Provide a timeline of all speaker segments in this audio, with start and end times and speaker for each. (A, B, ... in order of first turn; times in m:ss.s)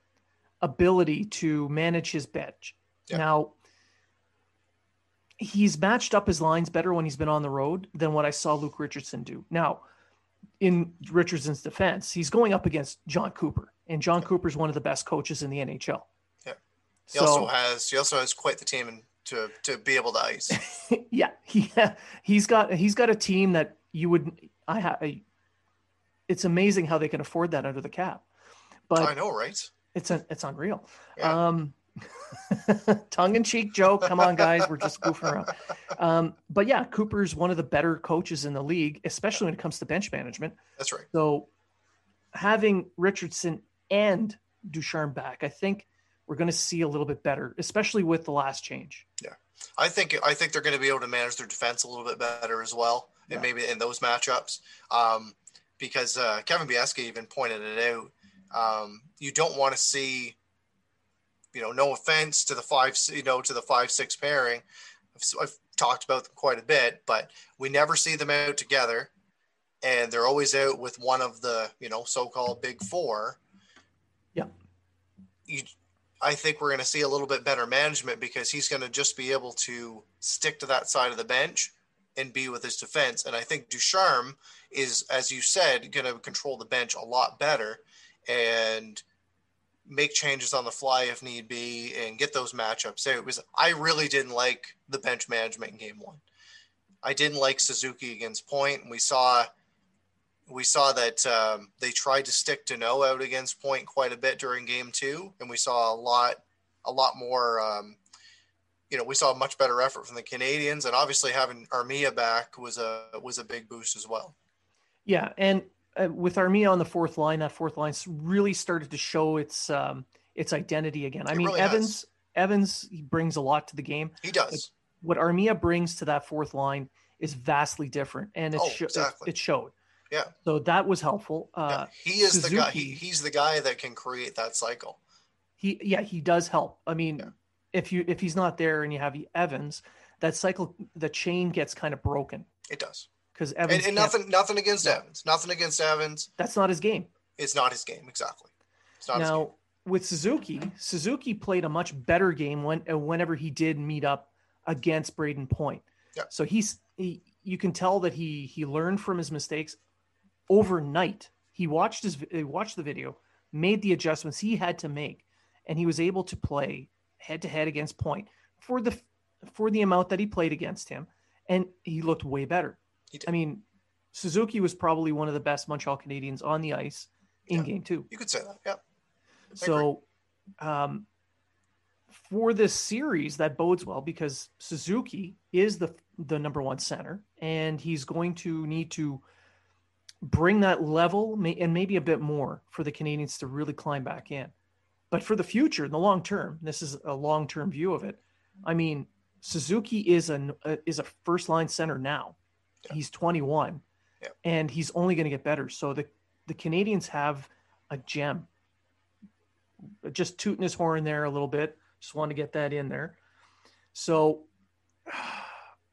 0:00.6-0:03.5 A
0:05.4-0:09.8 A
0:10.6-0:16.0 A
0:17.1-0:17.5 A
0:17.1-0:20.6 B
0:20.5-0:25.2 A
0:26.3-0:28.2 A
0:28.9-0:29.1 A
0:29.0-0:29.7 B
0:29.9-0:31.8 A
0:32.3-0:40.6 A
0:34.1-0:34.7 B
0:40.8-0:41.1 B
0:41.1-0:41.5 A
0:42.3-0:49.0 A
0:49.2-1:00.4 B
1:01.5-1:09.1 B
1:09.8-1:13.4 B
1:16.2-1:29.0 B
1:29.8-1:36.2 B
1:37.0-1:39.5 B
1:40.5-1:48.0 B
1:48.9-1:54.3 B
1:55.0-2:09.7 A
2:01.3-2:02.0 B
2:04.2-2:04.7 B
2:08.5-2:09.3 B
2:10.4-2:13.0 A
2:11.7-2:15.0 B
2:15.6-2:22.5 A
2:22.7-2:23.1 B
2:23.3-2:24.2 A
2:23.7-2:26.3 B
2:26.4-2:27.1 A
2:27.4-2:28.5 B
2:29.0-2:29.5 B
2:29.1-2:39.8 A
2:40.5-2:58.1 A
2:57.5-2:58.8 B
2:59.6-2:59.9 B
2:59.6-3:00.0 A
3:00.6-3:01.0 A
3:02.1-3:09.2 A
3:10.2-3:14.5 A
3:15.1-3:22.4 A
3:22.9-3:23.8 A
3:24.4-3:28.5 A
3:30.0-3:33.2 A
3:33.9-3:34.5 A
3:35.1-3:35.5 A